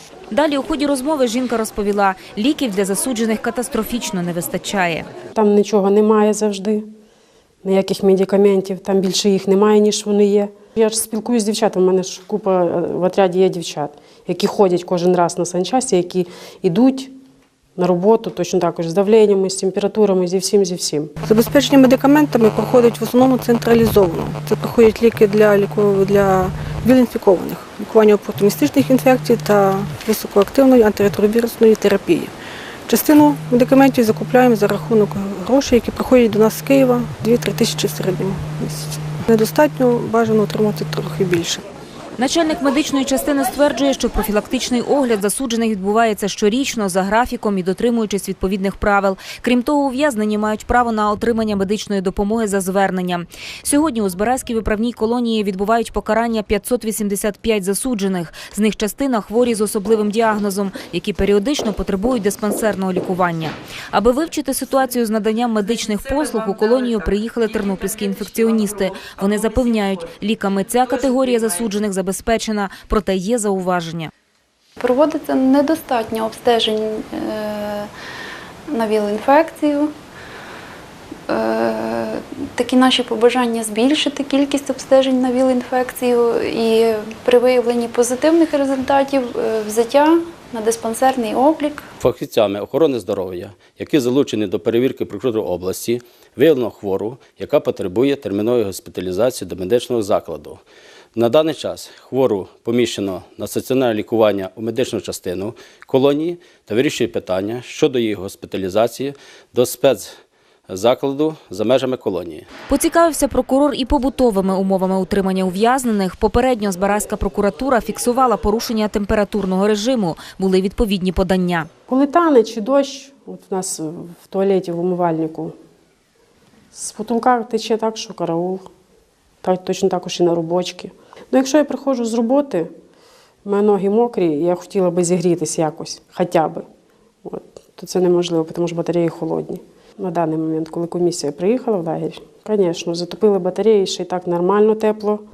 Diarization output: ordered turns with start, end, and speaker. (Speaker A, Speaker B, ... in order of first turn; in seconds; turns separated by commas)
Speaker A: 0.3-5.1, Speaker B: 5.3-6.9, Speaker B: 7.6-17.1, Speaker B: 17.8-21.1, Speaker C: 21.2-32.3, Speaker C: 32.9-41.6, Speaker A: 42.2-74.1, Speaker D: 74.8-77.8, Speaker D: 78.7-79.9, Speaker D: 81.3-91.8, Speaker E: 92.0-100.6, Speaker E: 101.2-110.1, Speaker E: 110.7-112.5, Speaker A: 112.7-121.7, Speaker B: 121.9-125.5, Speaker B: 126.7-128.7, Speaker B: 129.4-132.7, Speaker B: 133.4-136.7, Speaker B: 137.2-145.3